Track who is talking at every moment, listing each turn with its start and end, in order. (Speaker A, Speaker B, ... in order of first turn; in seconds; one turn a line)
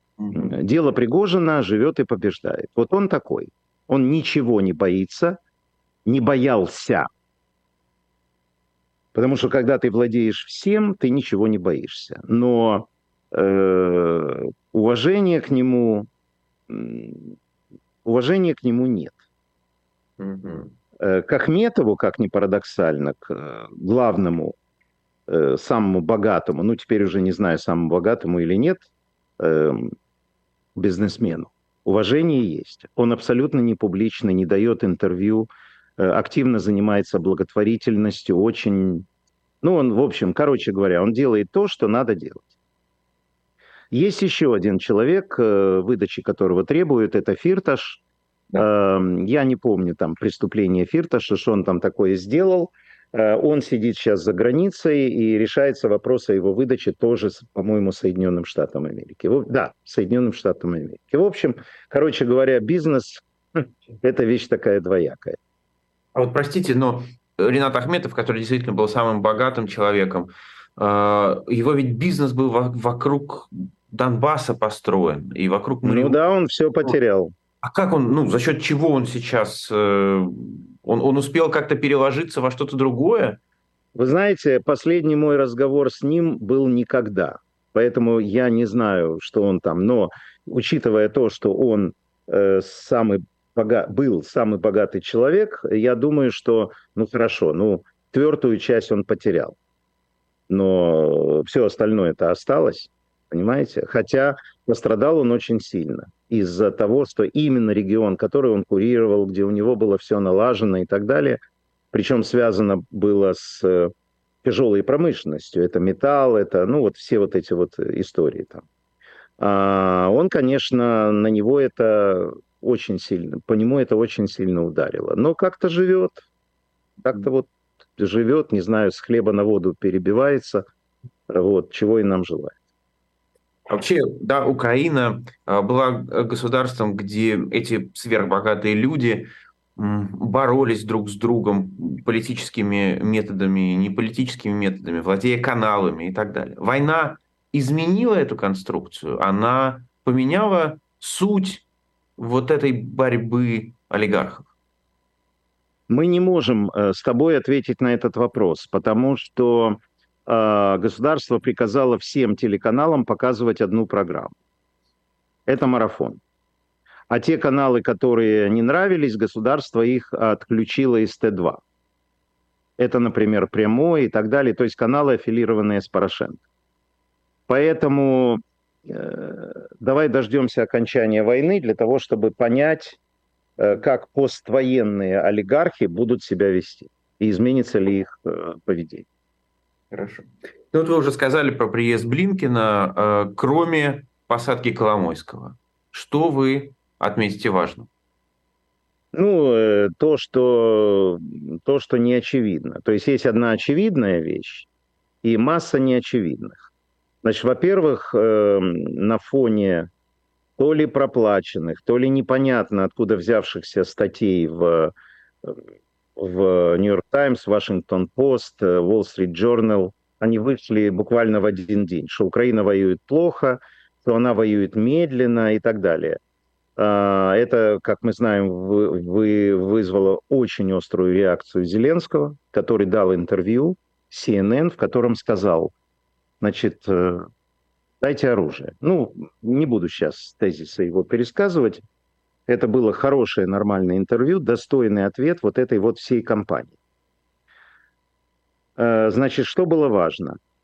Speaker A: 0.3-5.4
Speaker A: 6.1-7.1
Speaker A: 9.1-16.1
Speaker A: 16.7-17.4
Speaker A: 18.1-19.2
Speaker B: 20.2-20.7
Speaker A: 21.0-24.6
Speaker A: 25.3-28.9
Speaker A: 29.4-29.9
Speaker A: 30.8-39.1
Speaker A: 39.6-42.5
Speaker A: 43.9-48.0
Speaker A: 48.5-65.4
Speaker B: 66.2-76.2
Speaker A: 75.8-77.3
Speaker B: 77.6-83.4
Speaker A: 84.0-99.6
Speaker A: 100.5-111.4
Speaker A: 111.9-113.9
Speaker A: 114.4-118.6
Speaker A: 119.4-126.2
Speaker A: 127.0-130.7
Speaker A: 131.3-132.6
Speaker B: 133.7-151.7
Speaker B: 152.2-154.5
Speaker A: 155.9-164.4
Speaker A: 165.5-166.2
Speaker A: 167.1-171.6
Speaker A: 172.8-176.4
Speaker A: 177.5-183.0
Speaker A: 183.6-189.1
Speaker B: 189.9-197.9
Speaker A: 199.1-204.7
Speaker A: 205.2-206.7
Speaker A: 207.2-209.9
Speaker A: 210.6-214.9
Speaker A: 216.2-226.2
Speaker A: 226.8-235.7
Speaker A: 236.4-237.3
Speaker A: 238.0-241.8
Speaker A: 242.5-246.7
Speaker A: 248.8-250.4